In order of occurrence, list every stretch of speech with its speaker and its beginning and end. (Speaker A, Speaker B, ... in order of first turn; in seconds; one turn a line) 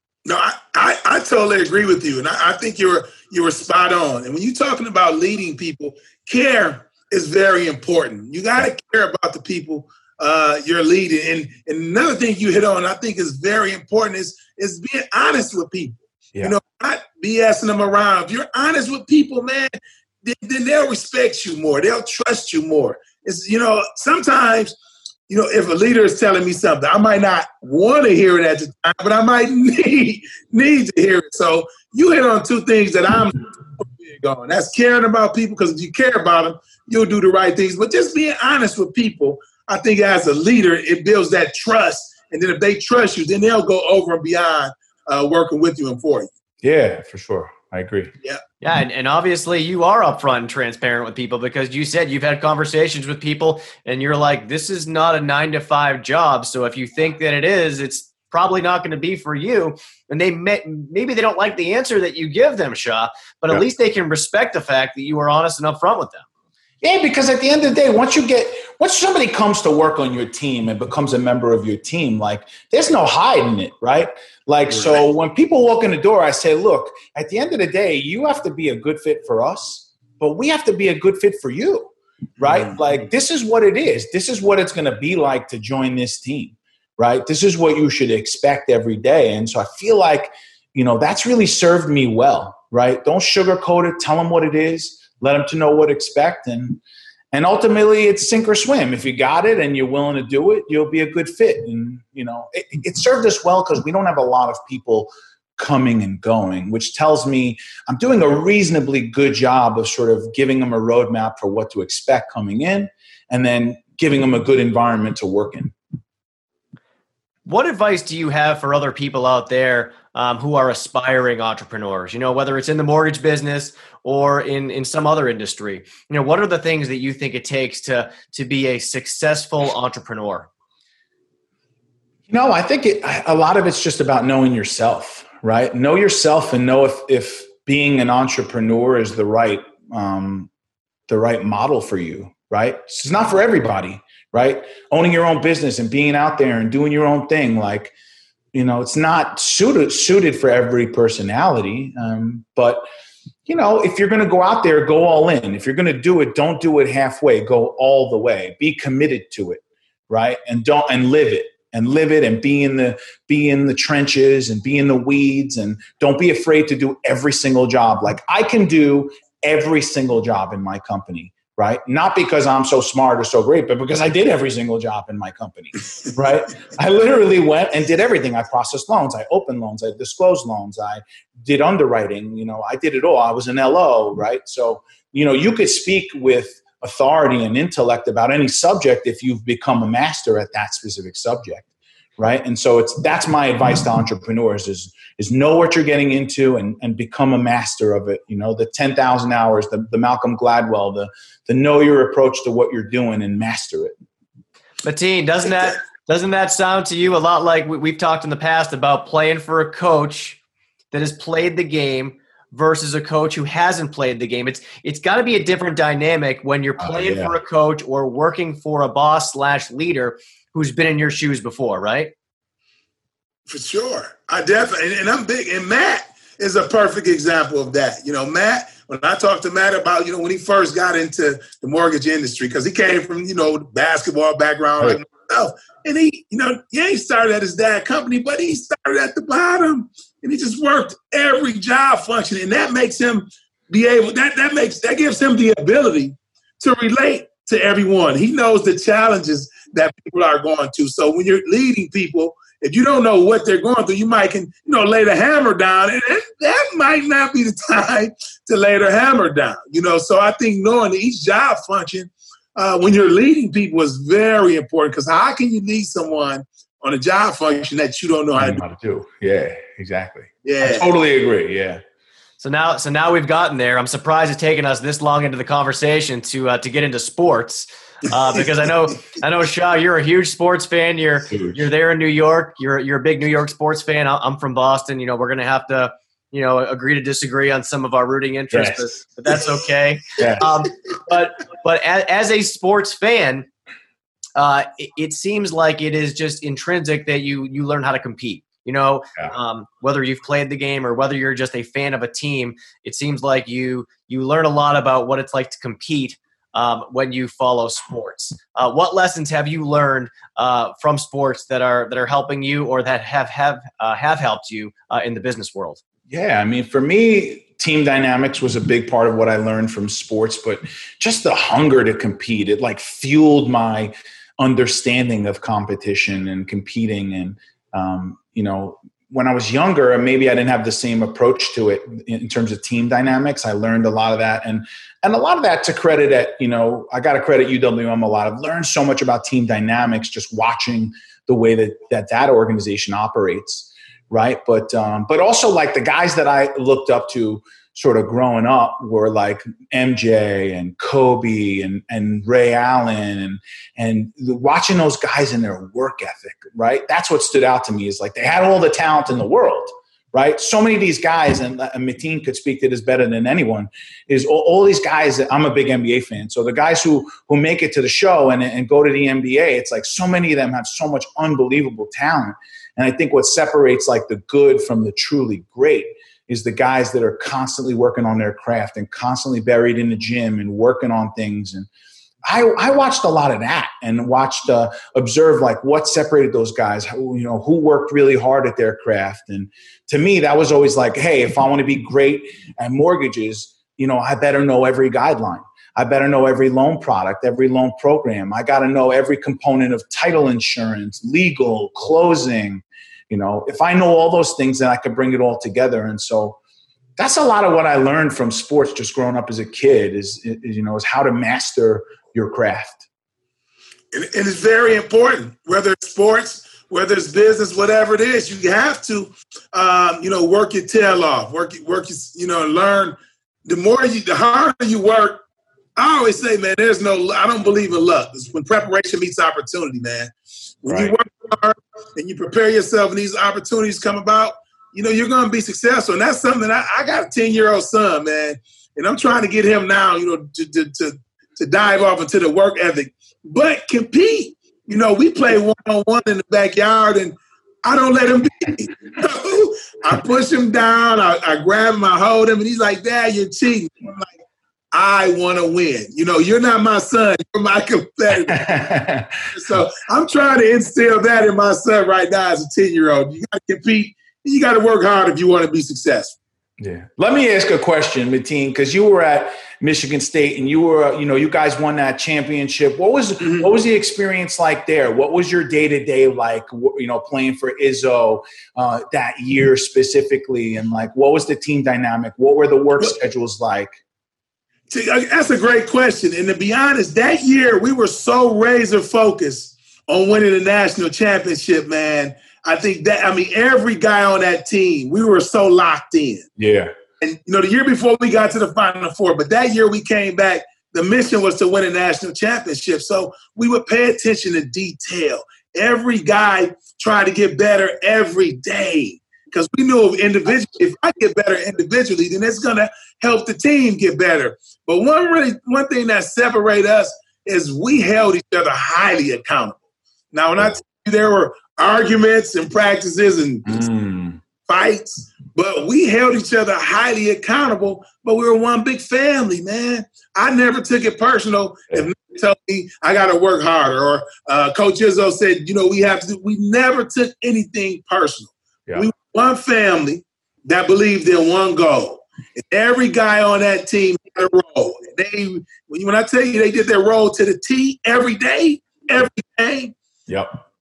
Speaker A: 0.2-24.8
Speaker A: 25.3-46.3
Speaker B: 46.6-48.1
Speaker C: 48.6-66.2
Speaker B: 66.8-96.8
Speaker A: 74.7-75.0
Speaker A: 82.4-82.8
Speaker B: 97.3-115.7
Speaker C: 117.5-130.5
Speaker B: 132.3-140.5
Speaker B: 141.1-147.9
Speaker B: 148.5-152.8
Speaker B: 153.5-203.9
Speaker C: 204.8-210.4
Speaker C: 210.9-222.1
Speaker B: 216.8-217.3
Speaker A: 223.5-268.6
Speaker B: 268.4-271.8
Speaker A: 270.4-270.9
Speaker C: 272.4-293.5
Speaker B: 281.3-281.6
Speaker B: 288.5-288.9
Speaker B: 290.2-290.5
Speaker C: 294.4-315.8
Speaker B: 316.1-381.7
Speaker B: 382.2-406.4
Speaker B: 407.0-412.8
Speaker A: 413.9-425.2
Speaker A: 425.8-454.1
Speaker B: 430.7-430.9
Speaker A: 454.7-458.6
Speaker B: 458.1-459.3
Speaker A: 459.3-466.2
Speaker B: 466.6-483.7
Speaker A: 473.2-473.5
Speaker A: 484.7-496.3
Speaker B: 496.4-496.7
Speaker A: 497.0-519.6
Speaker A: 520.1-523.6
Speaker B: 523.5-524.2
Speaker A: 524.4-549.7
Speaker B: 550.1-550.3